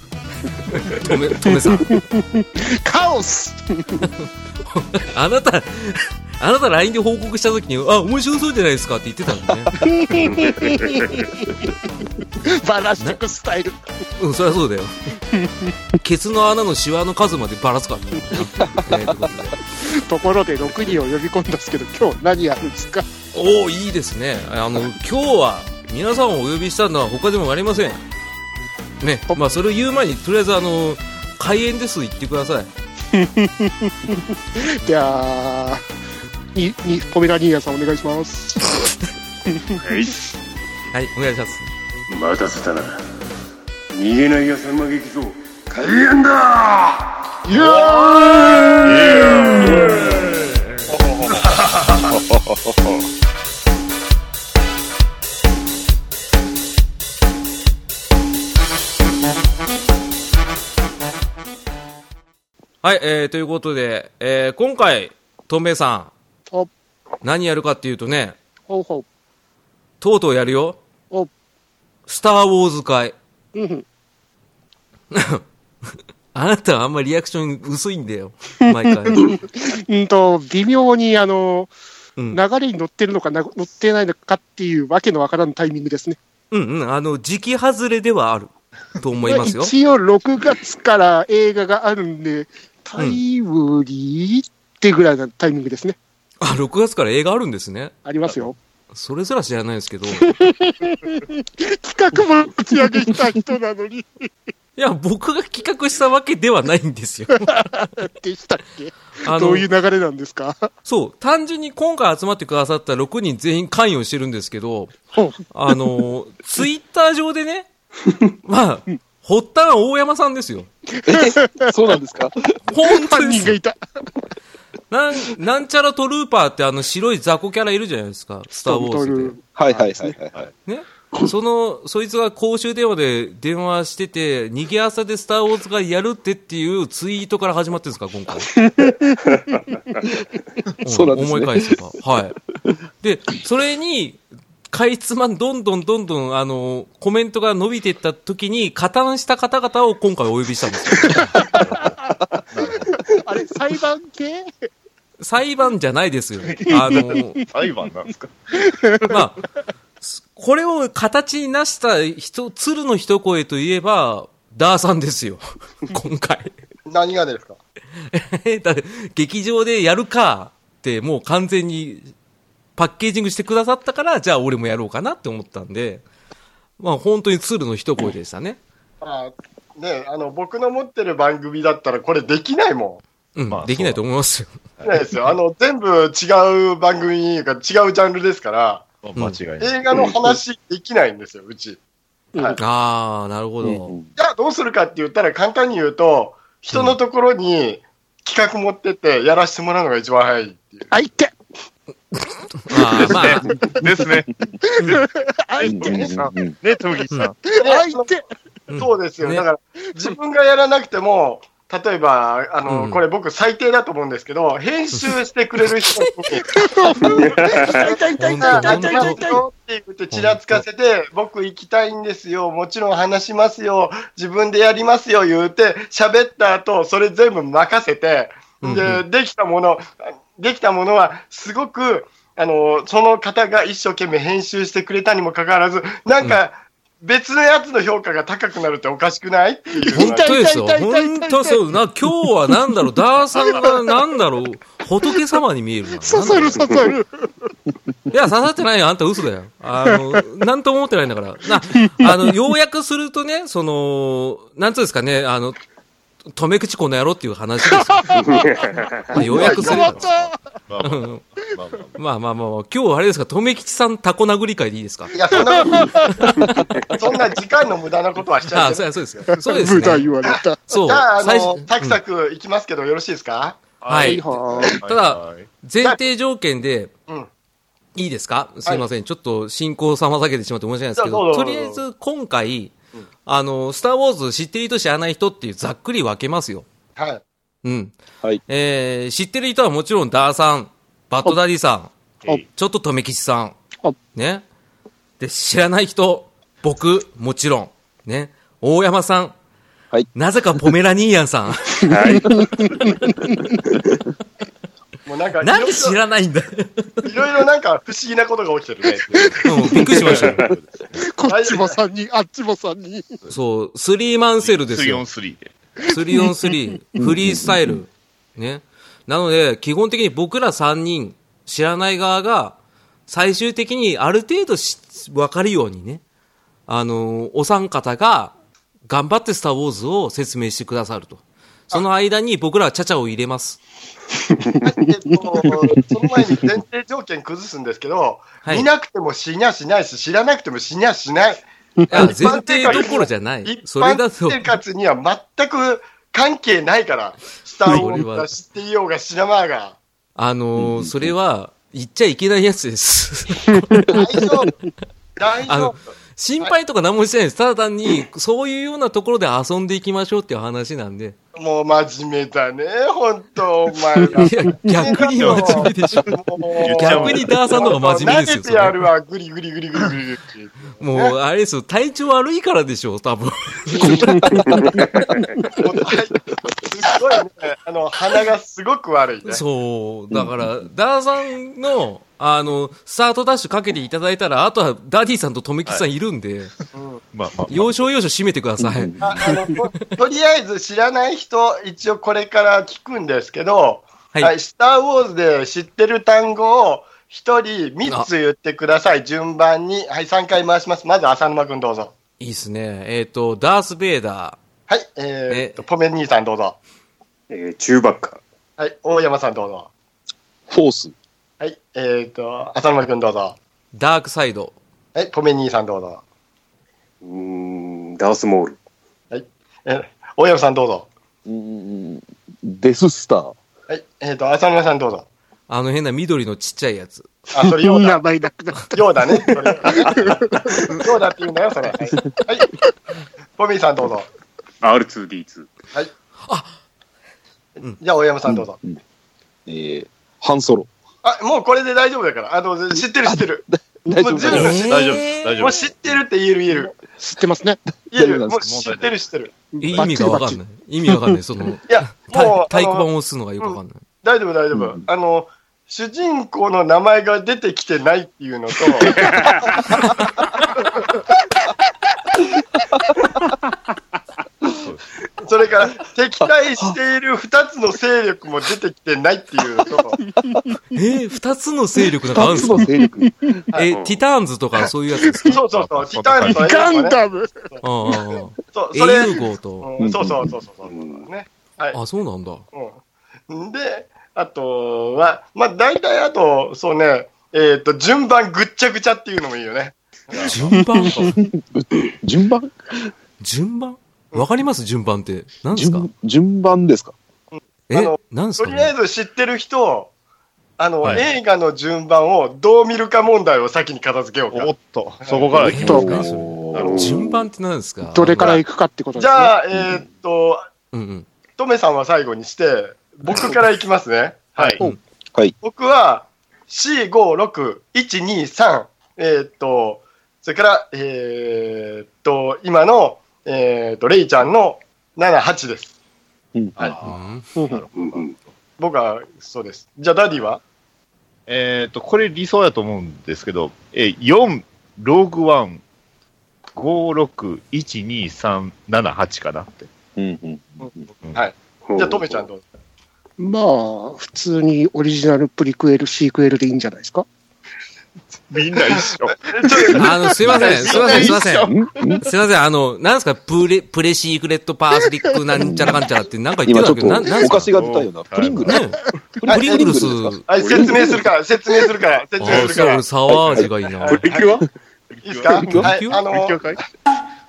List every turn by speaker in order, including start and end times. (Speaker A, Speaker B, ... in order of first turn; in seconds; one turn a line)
Speaker A: 0.4-2.0
Speaker B: 1.5-4.1
Speaker A: 4.0-9.8
Speaker B: 9.8-11.7
Speaker C: 10.2-11.3
Speaker B: 12.4-13.8
Speaker A: 14.2-14.9
Speaker B: 15.3-15.7
Speaker A: 16.0-19.6
Speaker D: 18.6-19.3
Speaker B: 19.8-23.1
Speaker A: 23.3-28.0
Speaker A: 29.0-32.7
Speaker B: 33.1-35.8
Speaker B: 36.5-38.7
Speaker B: 39.5-39.8
Speaker C: 39.8-40.2
Speaker A: 40.9-41.7
Speaker C: 42.1-43.0
Speaker C: 43.9-47.0
Speaker B: 47.4-49.4
Speaker E: 48.8-50.1
Speaker F: 50.9-51.3
Speaker E: 52.1-52.7
Speaker A: 62.8-66.1
Speaker A: 67.2-68.4
Speaker B: 68.7-69.0
Speaker A: 70.0-70.8
Speaker A: 72.1-73.1
Speaker B: 73.5-73.8
Speaker A: 75.1-75.4
Speaker A: 76.3-79.3
Speaker B: 78.7-81.7
Speaker B: 82.3-86.2
Speaker A: 86.5-89.7
Speaker B: 89.2-96.0
Speaker A: 96.4-97.9
Speaker B: 98.0-98.5
Speaker A: 98.9-100.3
Speaker B: 100.2-104.3
Speaker A: 104.8-107.5
Speaker B: 107.3-110.7
Speaker A: 109.2-109.7
Speaker A: 110.8-117.7
Speaker A: 118.4-120.7
Speaker D: 121.0-122.5
Speaker B: 121.1-121.7
Speaker A: 122.7-123.5
Speaker B: 122.8-123.8
Speaker A: 124.9-129.3
Speaker B: 128.5-130.1
Speaker D: 129.6-130.4
Speaker A: 130.7-138.5
Speaker B: 138.6-139.2
Speaker A: 140.8-142.4
Speaker D: 140.8-141.8
Speaker A: 143.0-151.6
Speaker B: 151.2-152.1
Speaker E: 151.4-152.0
Speaker E: 152.5-153.2
Speaker B: 152.9-154.5
Speaker A: 155.2-157.4
Speaker E: 157.0-158.3
Speaker B: 157.2-157.4
Speaker B: 158.7-159.1
Speaker A: 159.0-159.4
Speaker A: 160.0-166.5
Speaker F: 166.9-167.6
Speaker A: 168.1-172.1
Speaker A: 172.8-176.0
Speaker A: 176.8-178.6
Speaker F: 179.0-183.0
Speaker A: 183.3-184.6
Speaker E: 183.5-184.0
Speaker F: 184.8-188.9
Speaker E: 189.0-189.8
Speaker F: 189.6-191.8
Speaker A: 192.6-193.9
Speaker D: 193.6-194.1
Speaker F: 194.2-200.9
Speaker B: 200.9-201.3
Speaker A: 202.1-203.5
Speaker E: 203.0-204.3
Speaker B: 204.7-206.2
Speaker D: 205.6-206.6
Speaker E: 205.6-207.4
Speaker B: 207.4-208.2
Speaker F: 207.6-208.1
Speaker A: 208.7-209.4
Speaker F: 208.7-240.3
Speaker A: 212.7-213.0
Speaker B: 216.3-219.4
Speaker C: 217.1-217.9
Speaker A: 218.2-219.2
Speaker A: 220.1-220.6
Speaker A: 228.6-229.0
Speaker B: 239.8-241.6
Speaker A: 239.9-246.8
Speaker B: 243.4-243.8
Speaker B: 246.0-247.3
Speaker A: 248.1-255.6
Speaker B: 249.9-250.2
Speaker B: 251.8-252.3
Speaker A: 256.3-258.4
Speaker B: 257.9-258.4
Speaker C: 258.2-259.0
Speaker A: 259.1-260.0
Speaker B: 259.1-260.4
Speaker F: 259.3-259.8
Speaker E: 259.7-262.0
Speaker A: 260.8-261.2
Speaker A: 261.9-266.6
Speaker F: 265.1-265.9
Speaker B: 265.5-266.6
Speaker F: 266.9-268.9
Speaker A: 268.5-270.1
Speaker B: 269.3-270.6
Speaker F: 270.2-273.6
Speaker A: 270.7-272.0
Speaker E: 273.8-275.5
Speaker A: 273.9-274.2
Speaker B: 274.0-274.8
Speaker A: 274.8-276.9
Speaker A: 277.9-282.7
Speaker F: 281.0-281.8
Speaker A: 283.2-286.6
Speaker F: 287.0-287.2
Speaker A: 287.6-287.9
Speaker A: 288.5-291.9
Speaker A: 292.5-293.6
Speaker A: 294.1-294.4
Speaker A: 295.2-299.3
Speaker A: 300.1-301.9
Speaker C: 301.9-302.6
Speaker B: 302.1-303.5
Speaker F: 305.1-306.0
Speaker A: 305.4-307.1
Speaker F: 307.0-309.4
Speaker B: 309.1-310.2
Speaker A: 309.4-310.5
Speaker E: 310.0-311.0
Speaker B: 310.9-313.1
Speaker F: 311.3-311.8
Speaker A: 313.3-315.0
Speaker E: 314.4-315.5
Speaker A: 315.9-326.0
Speaker B: 316.1-316.5
Speaker D: 317.0-317.8
Speaker A: 326.7-328.3
Speaker A: 328.9-333.6
Speaker F: 334.6-349.8
Speaker B: 335.1-335.4
Speaker A: 341.9-344.4
Speaker A: 347.6-348.3
Speaker A: 350.1-353.9
Speaker D: 350.6-351.1
Speaker F: 353.9-354.5
Speaker F: 355.2-355.9
Speaker A: 355.5-361.1
Speaker F: 361.4-371.1
Speaker A: 364.1-368.8
Speaker E: 365.1-365.7
Speaker E: 366.6-367.7
Speaker A: 370.8-374.7
Speaker B: 374.0-374.4
Speaker F: 375.6-379.4
Speaker A: 379.2-386.5
Speaker D: 380.1-380.5
Speaker F: 386.7-387.0
Speaker E: 387.1-387.9
Speaker A: 387.5-389.8
Speaker D: 388.6-389.3
Speaker F: 389.0-401.9
Speaker A: 402.2-404.4
Speaker F: 404.7-406.6
Speaker A: 405.3-405.6
Speaker C: 407.3-408.2
Speaker F: 408.6-409.7
Speaker D: 410.5-410.9
Speaker F: 411.4-413.4
Speaker A: 413.7-414.5
Speaker F: 414.9-416.0
Speaker C: 417.0-418.6
Speaker F: 419.1-420.9
Speaker D: 421.2-423.3
Speaker F: 423.7-425.1
Speaker A: 425.5-427.1
Speaker F: 427.3-428.0
Speaker B: 427.5-430.8
Speaker F: 428.7-432.5
Speaker F: 433.4-434.1
Speaker C: 434.6-435.5
Speaker A: 436.2-436.5
Speaker F: 437.6-438.6
Speaker D: 438.2-438.8
Speaker D: 439.5-440.7
Speaker F: 441.0-443.4
Speaker D: 443.0-444.6
Speaker F: 443.9-444.7
Speaker A: 444.2-445.4
Speaker E: 444.3-446.0
Speaker F: 445.4-446.8
Speaker B: 447.0-447.6
Speaker D: 447.9-448.7
Speaker F: 447.9-449.3
Speaker E: 448.4-448.9
Speaker B: 449.5-451.1
Speaker A: 449.6-453.8
Speaker F: 451.7-452.9
Speaker F: 453.4-459.2
Speaker D: 454.5-454.8
Speaker C: 458.9-459.5
Speaker E: 464.4-464.8
Speaker F: 465.2-470.0
Speaker B: 470.0-470.6
Speaker A: 470.7-472.7
Speaker D: 472.1-473.4
Speaker B: 472.6-473.4
Speaker A: 473.5-475.4
Speaker C: 473.7-474.0
Speaker F: 475.3-477.0
Speaker E: 475.5-476.4
Speaker B: 476.3-477.9
Speaker A: 477.6-479.7
Speaker F: 478.5-481.8
Speaker D: 479.8-480.3
Speaker C: 480.6-481.0
Speaker A: 481.7-482.4
Speaker F: 482.5-490.3
Speaker E: 490.1-491.1
Speaker A: 490.3-491.1
Speaker D: 491.1-492.6
Speaker A: 493.2-495.9
Speaker D: 495.5-496.9
Speaker F: 497.3-499.9
Speaker A: 497.7-498.7
Speaker F: 500.6-504.5
Speaker E: 504.3-507.0
Speaker F: 505.0-505.4
Speaker A: 505.4-508.4
Speaker B: 505.5-505.9
Speaker D: 505.6-507.0
Speaker C: 506.6-507.1
Speaker B: 507.9-509.3
Speaker F: 508.9-510.4
Speaker D: 509.5-509.8
Speaker A: 510.7-511.1
Speaker F: 511.4-514.6
Speaker F: 515.4-525.7
Speaker E: 526.5-528.3
Speaker A: 526.8-527.2
Speaker B: 527.4-527.6
Speaker C: 527.7-528.1
Speaker F: 528.6-530.4
Speaker E: 531.3-535.6
Speaker E: 536.5-539.7
Speaker D: 540.0-540.9
Speaker F: 540.6-542.4
Speaker C: 541.6-542.3
Speaker B: 543.2-547.0
Speaker E: 548.3-551.5
Speaker F: 548.8-551.1
Speaker A: 549.7-557.5
Speaker D: 550.6-552.0
Speaker D: 555.4-555.8
Speaker D: 556.5-558.6
Speaker E: 557.2-558.6
Speaker A: 558.4-560.2
Speaker D: 559.1-560.9
Speaker F: 559.3-559.7
Speaker F: 560.3-564.4
Speaker C: 560.3-560.9
Speaker A: 562.2-564.0
Speaker E: 562.3-562.5
Speaker C: 563.9-564.4
Speaker E: 564.9-566.6
Speaker F: 565.0-566.5
Speaker D: 565.3-565.6
Speaker A: 565.5-566.0